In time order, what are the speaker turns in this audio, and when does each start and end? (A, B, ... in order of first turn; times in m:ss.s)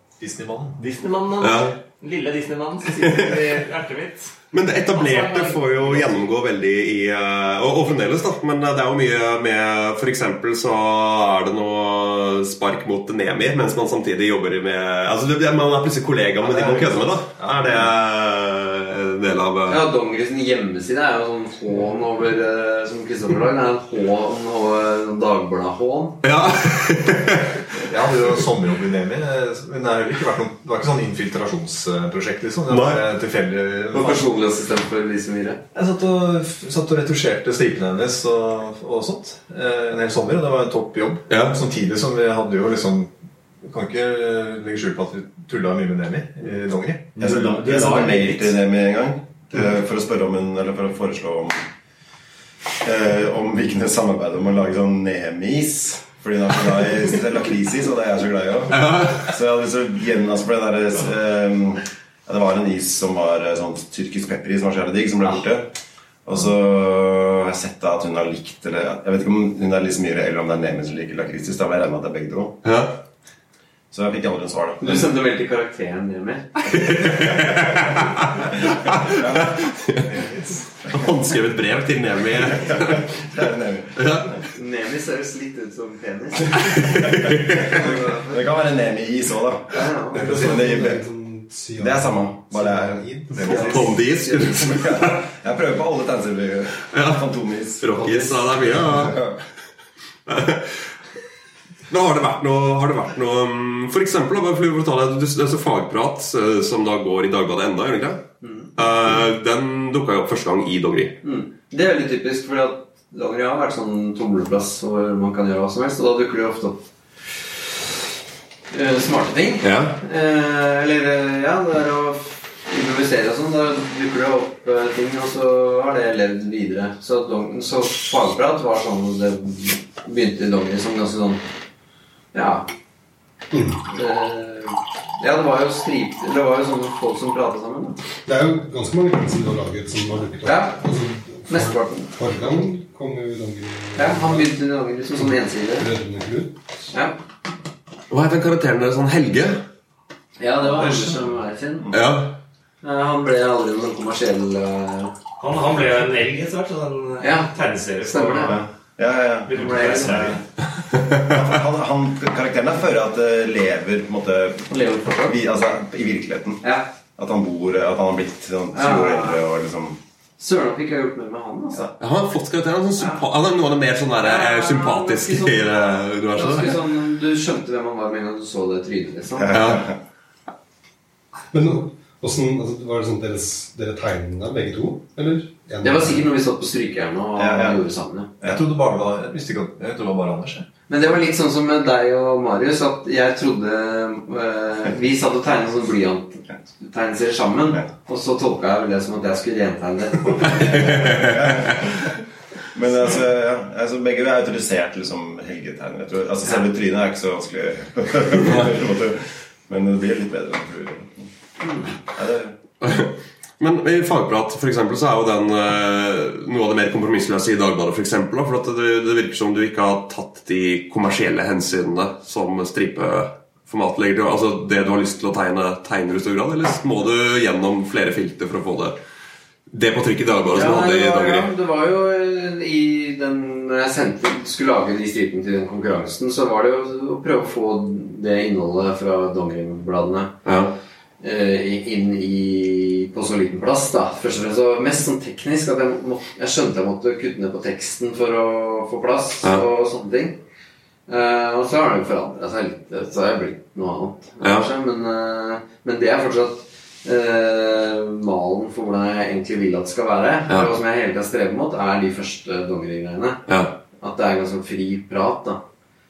0:00.2-0:00.8 A
0:00.8-0:06.3 B
0:01.4-0:01.8 C
0:03.0-0:03.4 C
0:04.5-0:19.8 C
0:16.4-0:17.9 A
0:19.7-0:26.2 D
0:26.2-0:27.7 C
0:27.8-0:34.3 A
0:32.7-0:33.0 C
0:33.9-0:35.6 D
0:35.7-0:47.1 A
0:41.3-0:41.6 C
0:47.2-0:48.6 B
0:47.2-0:51.6 E
0:52.8-1:05.7 E
0:58.7-0:59.3 C
1:06.2-1:12.6 E
1:12.6-1:13.0 C
1:13.9-1:15.1 E
1:14.8-1:16.6 D
1:16.7-1:20.1 C
1:17.0-1:17.4 E
1:19.0-1:19.6 E
1:20.1-1:20.5 A
1:20.8-1:23.1 C
1:22.6-1:24.0 E
1:24.0-1:24.4 C
1:24.5-1:26.9 D
1:26.6-1:27.8 C
1:27.5-1:31.0 E
1:27.6-1:28.3 D
1:29.7-1:30.4 D
1:30.1-1:33.7 F
1:31.8-1:39.4 E
1:33.4-1:34.6 D
1:33.4-1:35.2 C
1:36.8-1:37.2 C
1:37.8-1:39.3 C
1:40.3-1:40.9 C
1:41.9-1:48.2 C
1:48.4-1:48.7 D
1:48.8-1:51.2 C
1:51.2-1:56.8 D
1:58.7-2:11.4 D
1:59.6-2:00.0 C
2:12.3-2:12.7 D
2:13.5-2:13.8 F
2:13.9-2:18.0 D
2:18.2-2:24.5 F
2:20.4-2:20.9 D
2:21.5-2:22.1 D
2:23.9-2:25.9 D
2:25.2-2:26.6 F
2:28.1-2:29.6 C
2:30.4-2:31.9 D
2:31.9-2:32.4 C
2:32.8-2:35.1 D
2:35.4-2:38.7 B
2:37.2-2:37.5 D
2:38.0-2:38.6 D
2:38.5-2:40.4 E
2:39.4-2:40.4 B
2:39.5-2:40.4 D
2:40.9-2:41.3 C
2:41.1-2:44.7 E
2:44.7-2:45.4 D
2:45.2-2:46.6 E
2:46.6-2:46.9 D
2:47.2-2:50.0 E
2:48.7-2:49.4 D
2:50.4-2:51.8 D
2:52.0-2:56.8 C
2:54.2-2:59.5 D
2:59.4-3:00.0 E
2:59.5-2:59.8 C
3:01.5-3:06.2 F
3:05.8-3:08.3 D
3:07.4-3:07.8 E
3:08.4-3:10.7 A
3:10.9-3:21.1 D
3:20.4-3:21.4 C
3:20.7-3:22.0 E
3:22.7-3:31.3 E
3:31.6-3:31.9 D
3:32.0-3:32.5 E
3:32.8-3:49.0 C
3:49.7-3:51.5 C
3:50.5-4:00.3 D
4:00.4-4:00.7 C
4:01.2-4:10.4 D
4:11.1-4:23.4 D
4:14.4-4:14.7 C
4:23.5-4:23.8 C
4:24.0-4:25.6 D